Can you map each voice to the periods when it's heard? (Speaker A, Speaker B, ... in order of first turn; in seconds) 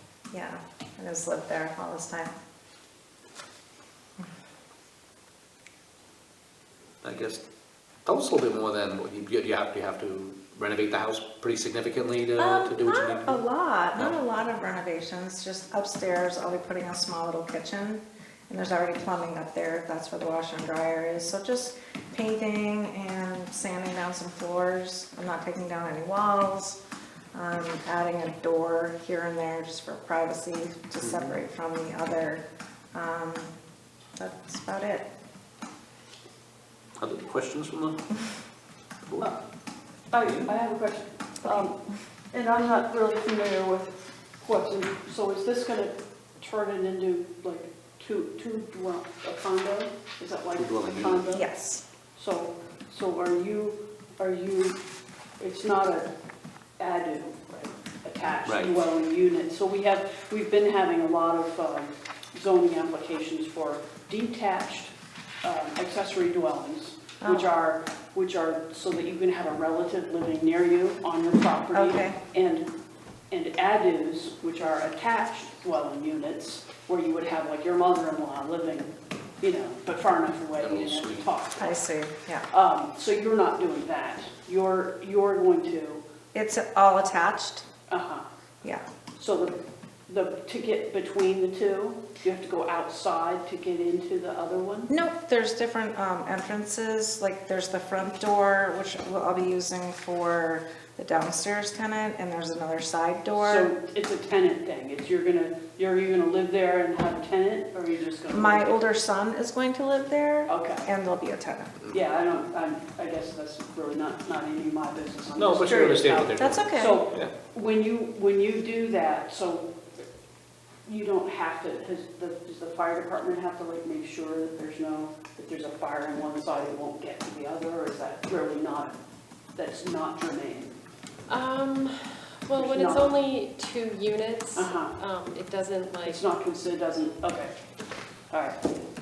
Speaker A: 0.3-2.4, 12.4-26.8, 27.3-33.6, 34.2-35.1, 51.3-51.8, 67.2-67.5, 71.7-72.2, 81.6-82.5, 86.3-87.7, 94.9-103.7, 108.3-111.8, 115.7-117.0
Speaker B: 7.0-7.4, 8.1-13.4, 13.9-14.2, 31.0-31.4, 37.0-38.1, 40.2-40.5, 50.6-51.2, 58.4-58.8, 80.6-81.3, 115.3-117.3
Speaker C: 40.1-41.8, 42.3-51.4, 52.2-54.8, 55.4-56.1, 56.8-64.9, 65.4-72.7, 73.3-81.7, 82.5-86.0, 87.9-88.3, 89.2-94.9, 103.4-108.8, 110.5-110.9, 111.9-119.8, 120.9-129.0, 129.6-130.8, 132.5-133.1, 134.6-135.0, 136.0-137.5, 138.3-138.6
Speaker D: 131.3-136.2